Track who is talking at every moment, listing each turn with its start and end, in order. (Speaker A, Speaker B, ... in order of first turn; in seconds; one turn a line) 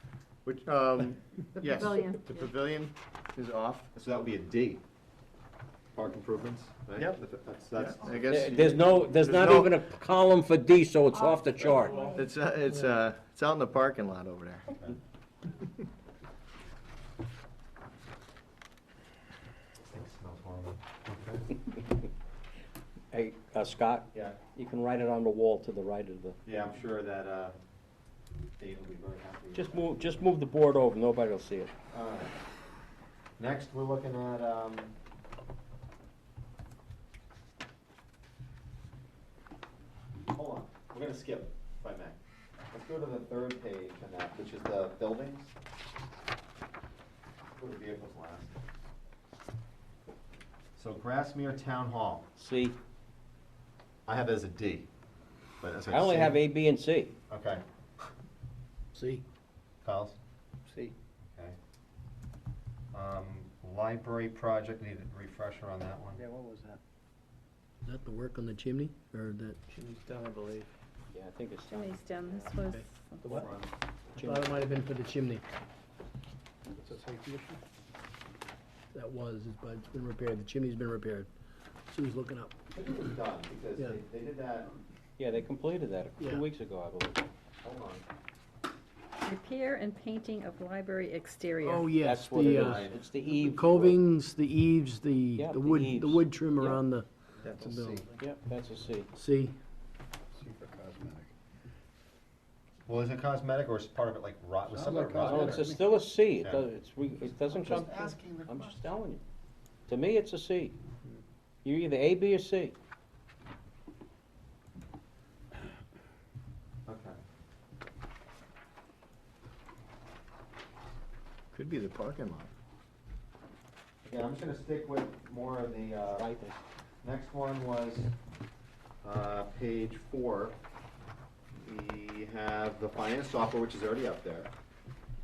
Speaker A: 0.4-3.9
Speaker B: 1.8-2.4
Speaker C: 3.9-4.8
Speaker C: 5.9-8.5
Speaker A: 7.0-7.2
Speaker A: 7.7-9.8
Speaker D: 8.3-12.1
Speaker B: 11.1-12.3
Speaker A: 11.6-14.7
Speaker C: 19.9-21.6
Speaker D: 23.1-26.4
Speaker C: 24.1-24.4
Speaker C: 26.4-27.6
Speaker C: 28.6-30.2
Speaker D: 29.5-31.7
Speaker C: 31.9-32.4
Speaker C: 33.4-34.9
Speaker C: 40.3-42.2
Speaker C: 42.7-45.5
Speaker C: 47.6-48.6
Speaker C: 50.8-52.3
Speaker D: 52.4-52.8
Speaker C: 54.0-54.9
Speaker C: 55.6-56.4
Speaker D: 55.9-57.1
Speaker C: 57.3-57.6
Speaker E: 58.9-59.2
Speaker C: 59.8-60.2
Speaker A: 60.6-60.9
Speaker C: 62.9-66.2
Speaker F: 66.1-66.8
Speaker E: 67.8-69.6
Speaker A: 69.7-70.7
Speaker D: 71.1-72.0
Speaker B: 71.7-73.5
Speaker C: 72.1-72.6
Speaker E: 72.7-73.5
Speaker C: 73.2-73.7
Speaker E: 74.2-75.4
Speaker D: 74.2-74.5
Speaker E: 78.9-81.3
Speaker E: 81.9-82.5
Speaker C: 82.7-84.7
Speaker D: 85.2-87.2
Speaker E: 86.2-86.4
Speaker C: 87.6-88.0
Speaker B: 89.2-91.9
Speaker E: 91.6-97.0
Speaker D: 92.0-94.0
Speaker C: 92.4-93.0
Speaker D: 95.4-96.8
Speaker A: 97.4-98.0
Speaker E: 97.6-98.0
Speaker D: 98.2-99.1
Speaker E: 99.1-99.5
Speaker F: 100.3-101.3
Speaker C: 102.9-105.7
Speaker F: 104.7-106.0
Speaker D: 105.2-109.2
Speaker C: 106.2-106.7
Speaker C: 107.2-109.0
Speaker D: 109.9-110.7
Speaker D: 111.6-112.7
Speaker C: 116.8-117.2
Speaker A: 121.5-122.5
Speaker C: 124.0-126.3
Speaker D: 126.0-126.6
Speaker C: 127.0-128.1
Speaker C: 129.0-130.6
Speaker C: 131.6-134.5